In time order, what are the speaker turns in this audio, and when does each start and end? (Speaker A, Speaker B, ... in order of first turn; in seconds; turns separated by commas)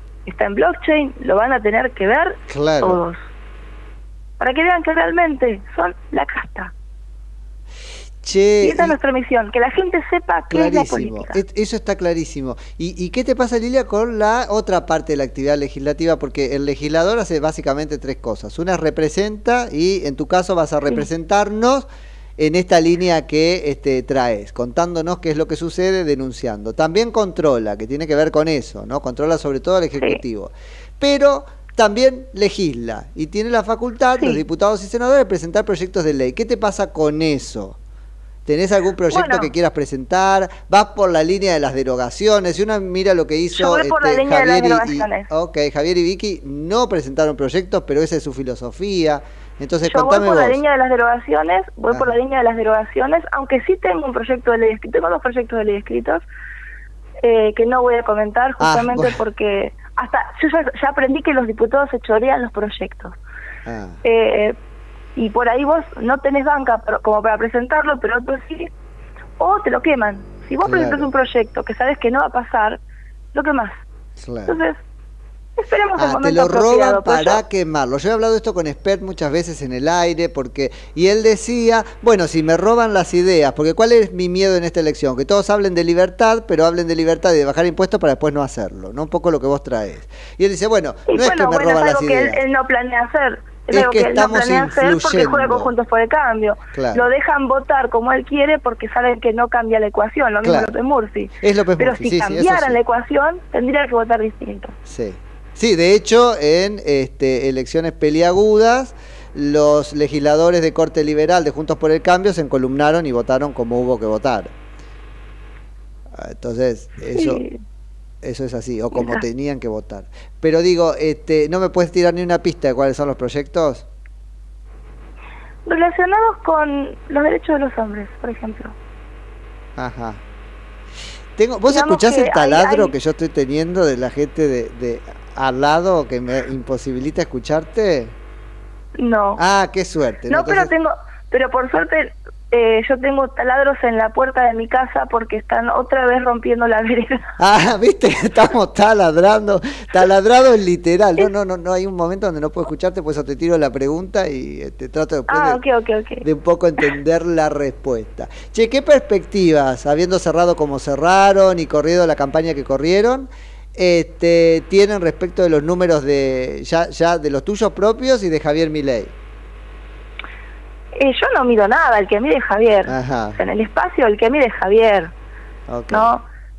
Speaker A: 0.2-3.2, Speaker B: 2.5-3.0, Speaker A: 4.4-6.7, Speaker B: 8.2-9.0, Speaker A: 8.6-11.4, Speaker B: 10.5-37.8, Speaker A: 34.2-34.4, Speaker B: 38.5-50.6, Speaker A: 39.1-39.5, Speaker A: 43.5-45.3, Speaker A: 49.8-56.2, Speaker B: 51.9-52.1, Speaker A: 57.2-63.1, Speaker B: 58.6-59.2, Speaker B: 63.7-64.0, Speaker A: 64.0-64.5, Speaker A: 65.2-68.7, Speaker A: 69.4-72.8, Speaker B: 70.6-71.1, Speaker A: 73.3-73.8, Speaker B: 74.2-74.6, Speaker A: 74.5-74.8, Speaker A: 75.6-77.4, Speaker B: 76.0-92.4, Speaker A: 91.1-104.7, Speaker B: 93.7-95.7, Speaker B: 96.7-97.1, Speaker B: 100.4-100.7, Speaker B: 101.4-102.8, Speaker B: 104.8-114.5, Speaker B: 116.1-117.4, Speaker A: 117.1-117.6, Speaker B: 118.2-123.8, Speaker A: 118.9-119.2, Speaker A: 125.7-128.8, Speaker B: 129.8-130.2, Speaker B: 131.3-138.1, Speaker A: 131.7-132.9, Speaker A: 139.0-139.4, Speaker B: 139.4-140.7, Speaker A: 140.3-147.3, Speaker B: 147.4-155.6, Speaker A: 155.3-156.2, Speaker B: 156.2-169.1, Speaker A: 170.9-175.1, Speaker B: 172.9-173.4, Speaker B: 175.7-176.1, Speaker A: 175.9-176.2